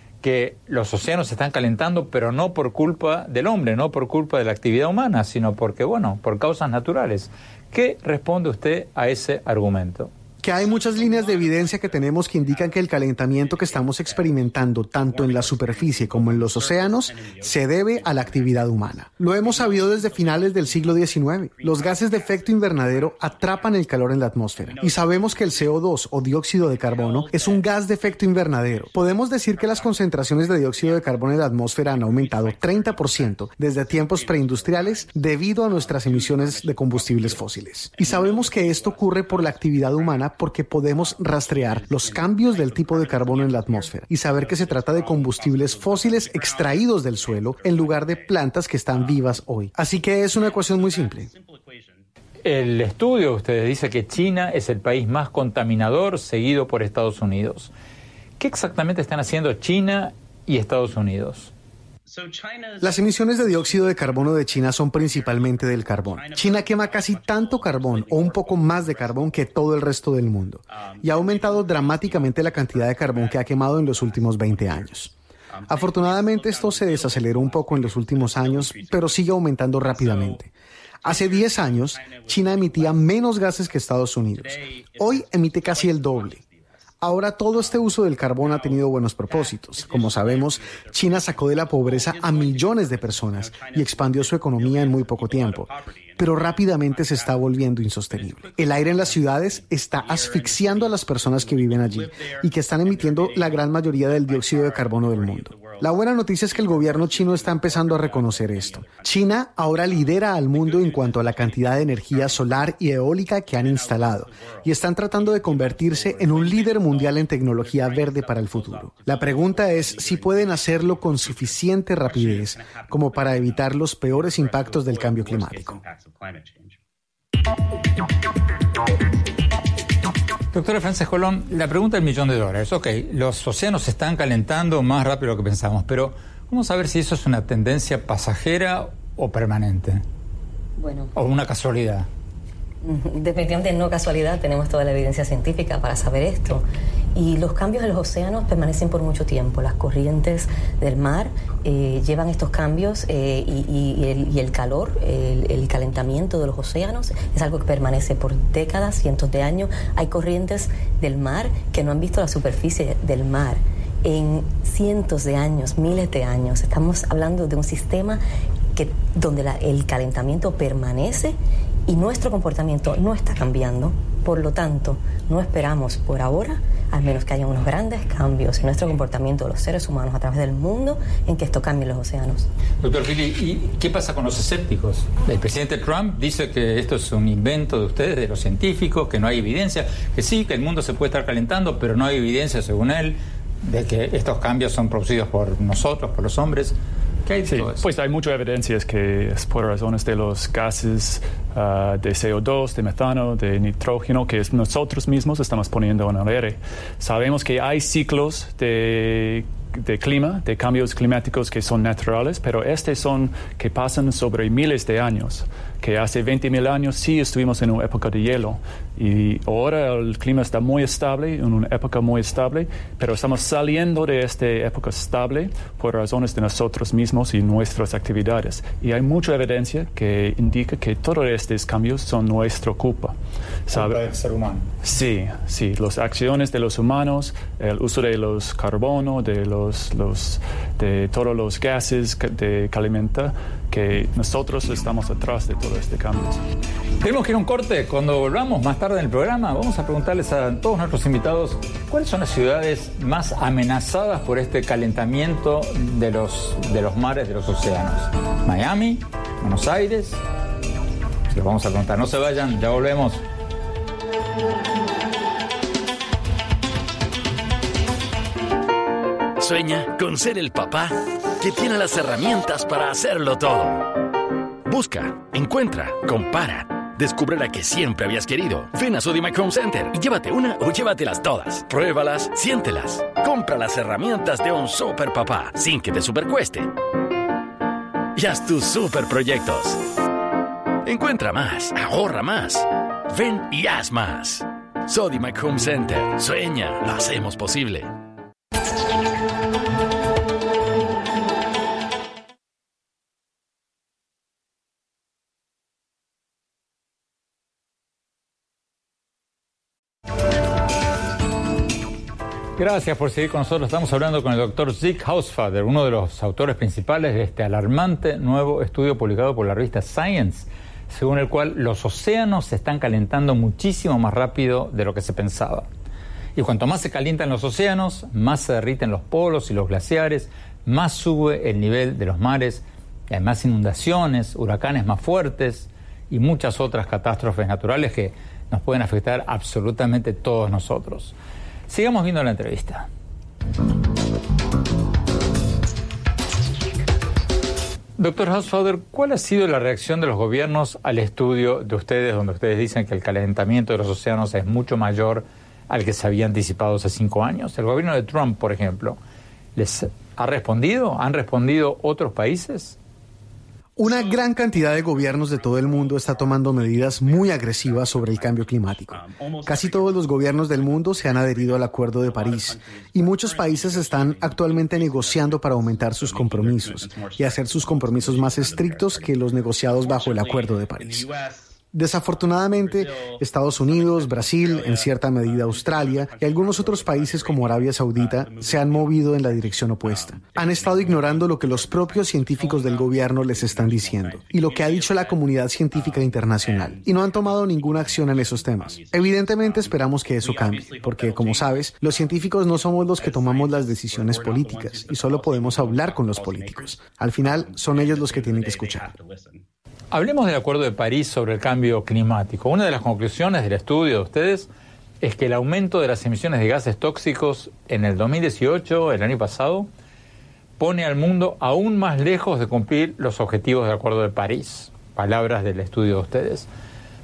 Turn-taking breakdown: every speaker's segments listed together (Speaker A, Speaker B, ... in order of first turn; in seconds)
Speaker A: 0.2-10.1, 52.4-57.7, 58.4-61.5, 130.5-140.0, 141.1-142.1, 182.8-196.8, 197.2-197.8, 233.7-234.7, 247.0-260.2, 261.3-263.2, 312.6-325.7, 326.4-341.1, 341.7-342.9, 348.0-359.0, 359.6-362.8, 409.9-414.5, 415.0-419.7, 420.6-426.5
Speaker B: 10.4-51.3, 62.8-75.1, 75.7-80.5, 81.0-86.4, 87.0-125.8, 363.8-381.1, 381.7-408.9
Speaker C: 140.8-141.1, 142.8-168.2, 168.8-171.4, 171.9-182.5
Speaker D: 197.5-233.1, 233.7-234.0, 234.8-246.4
Speaker E: 269.4-273.9, 274.6-286.7, 288.1-289.8, 290.9-297.9